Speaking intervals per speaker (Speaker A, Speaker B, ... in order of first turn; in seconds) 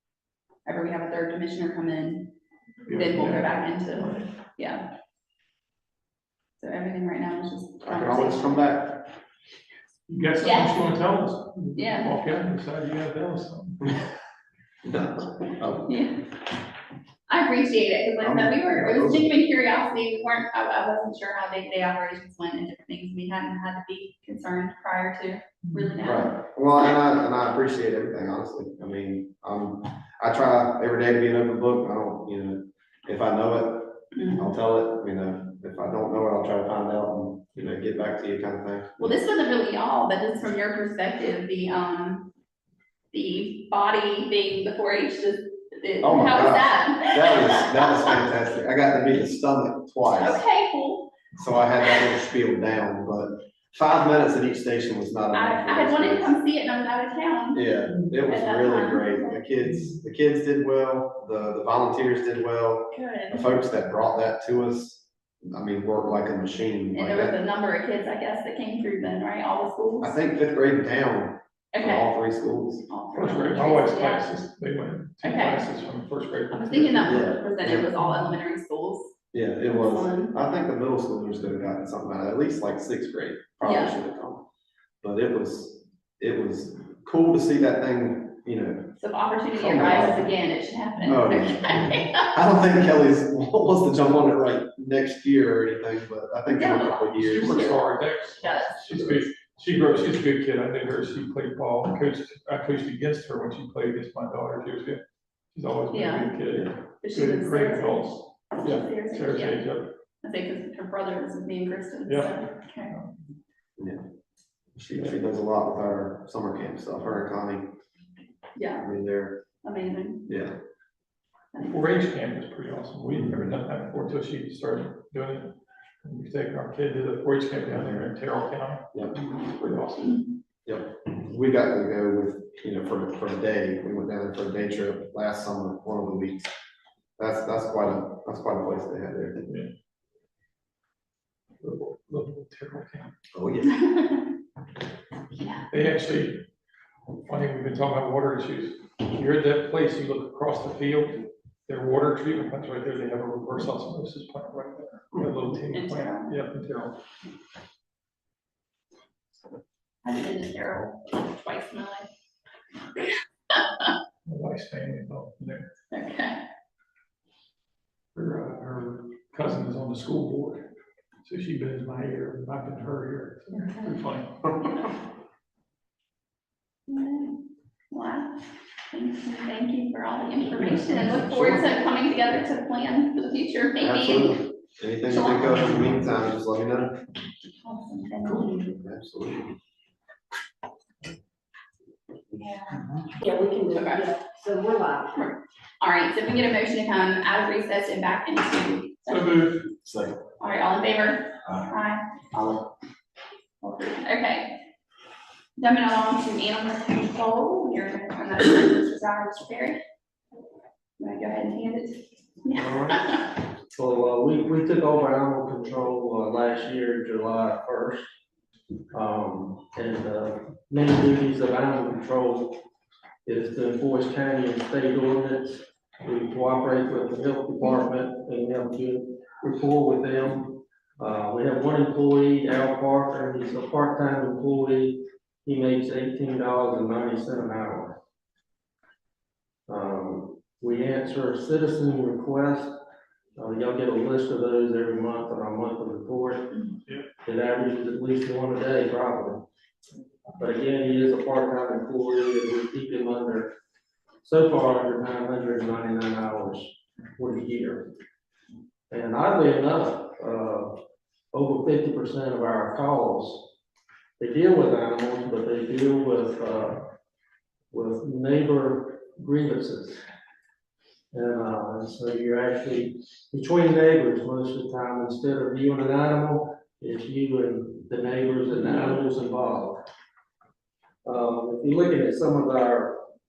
Speaker A: 0.6-2.3, 2.9-4.9, 6.6-8.6, 10.4-10.9, 11.7-12.1, 15.9-16.1, 17.3-26.3, 34.1-34.5, 39.0-42.3, 43.1-48.3, 50.1-51.1, 55.3-59.4, 62.9-63.4, 66.9-70.2, 71.7-72.1, 72.9-74.3, 75.2-75.7, 76.5-80.3, 83.6-83.9, 89.0-92.3, 96.5-99.0, 105.9-106.4, 107.0-109.6, 110.2-112.9, 118.5-118.9, 119.6-120.2, 121.5-121.8, 143.8-144.2, 145.3-145.7, 155.7-156.4, 160.0-162.1, 163.0-163.9, 165.9-166.4, 173.6-173.8, 176.9-184.4, 185.1-185.6, 187.6-188.8, 192.3-192.8, 193.5-194.2, 195.1-199.5, 200.4-202.7, 203.6-204.6, 205.6-209.8, 211.0-213.2
Speaker B: 2.9-4.3, 10.1-13.9, 25.7-25.9, 73.1-77.3, 78.0-78.3, 97.2-105.0, 105.5-109.9, 112.1-112.4, 112.9-113.1, 121.6-130.3, 139.4-139.7, 141.6-143.1, 145.7-146.5, 147.2-157.0, 164.2-165.7, 168.1-170.7, 171.2-174.8, 180.6-181.6, 185.5-185.8, 199.1-199.6
Speaker C: 7.8-9.1, 14.8-16.0, 18.2-19.3, 26.0-39.1, 46.0-50.4, 51.4-56.3, 57.5-67.3, 70.0-72.8, 77.0-77.9, 79.3-84.4, 85.0-88.9, 89.5-90.3, 91.1-97.8, 98.9-99.2, 113.8-114.0, 114.8-117.7, 118.8-119.4, 120.3-120.5, 127.7-128.1, 130.7-136.5, 137.2-139.4, 143.3-143.8, 183.8-186.9, 188.7-189.5, 199.8-200.2
Speaker D: 193.2-195.1
Speaker E: 212.5-213.1, 213.7-218.0, 218.9-222.6, 223.2-237.9, 239.7-242.7, 243.3-246.6, 247.2-249.4, 250.4-253.5, 254.2-257.9, 258.9-260.8, 261.3-263.5, 264.2-266.9, 267.7-270.0, 271.1-279.8, 281.0-283.0